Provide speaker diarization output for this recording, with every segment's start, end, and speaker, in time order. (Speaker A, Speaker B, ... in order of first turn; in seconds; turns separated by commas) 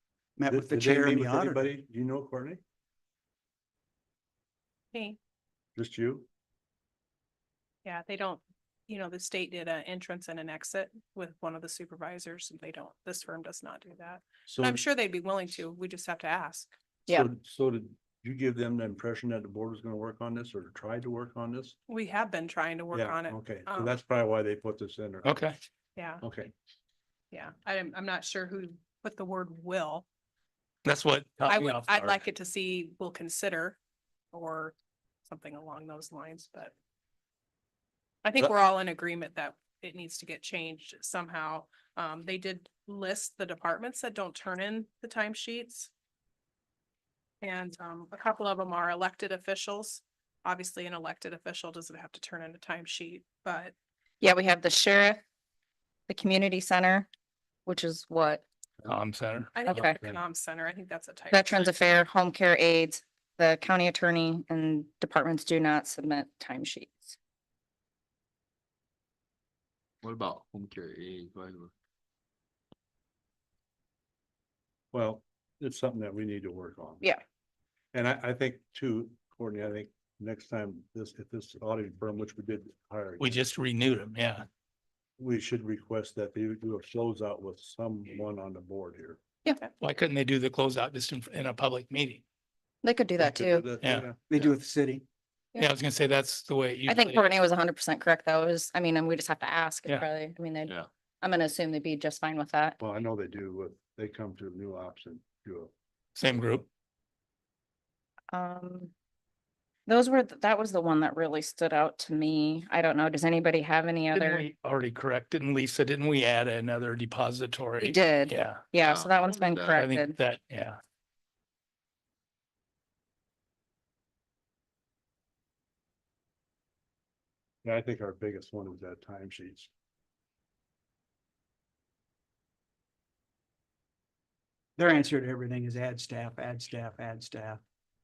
Speaker A: 0.4-1.7, Speaker B: 0.5-2.6, Speaker C: 4.9-5.2, Speaker B: 5.8-6.3, Speaker C: 7.8-16.7, Speaker B: 14.5-14.8, Speaker B: 17.1-21.8, Speaker C: 21.9-24.0, Speaker B: 22.9-25.4, Speaker D: 25.2-25.5, Speaker C: 26.0-26.2, Speaker B: 26.2-26.5, Speaker C: 27.3-30.1, Speaker D: 30.8-32.2, Speaker C: 31.5-33.8, Speaker C: 34.3-36.7, Speaker C: 38.2-45.9, Speaker C: 47.4-53.7, Speaker E: 54.2-55.2, Speaker E: 56.1-57.1, Speaker E: 57.7-58.4, Speaker D: 58.8-59.9, Speaker C: 59.5-61.7, Speaker E: 59.7-60.0, Speaker E: 61.3-67.2, Speaker F: 70.0-71.7, Speaker B: 74.9-77.1, Speaker B: 77.9-83.4, Speaker D: 83.2-84.5, Speaker B: 85.2-89.2, Speaker D: 89.8-92.2, Speaker E: 92.8-93.7, Speaker B: 93.2-94.4, Speaker D: 93.8-94.1, Speaker A: 94.3-95.0, Speaker D: 95.6-97.2, Speaker E: 96.9-102.8, Speaker B: 102.8-105.7, Speaker D: 106.2-106.7, Speaker E: 108.3-108.9, Speaker E: 109.9-114.5, Speaker D: 114.1-118.7, Speaker E: 117.8-120.2, Speaker F: 118.8-119.9, Speaker D: 119.8-120.8, Speaker B: 127.6-129.7, Speaker A: 134.8-137.6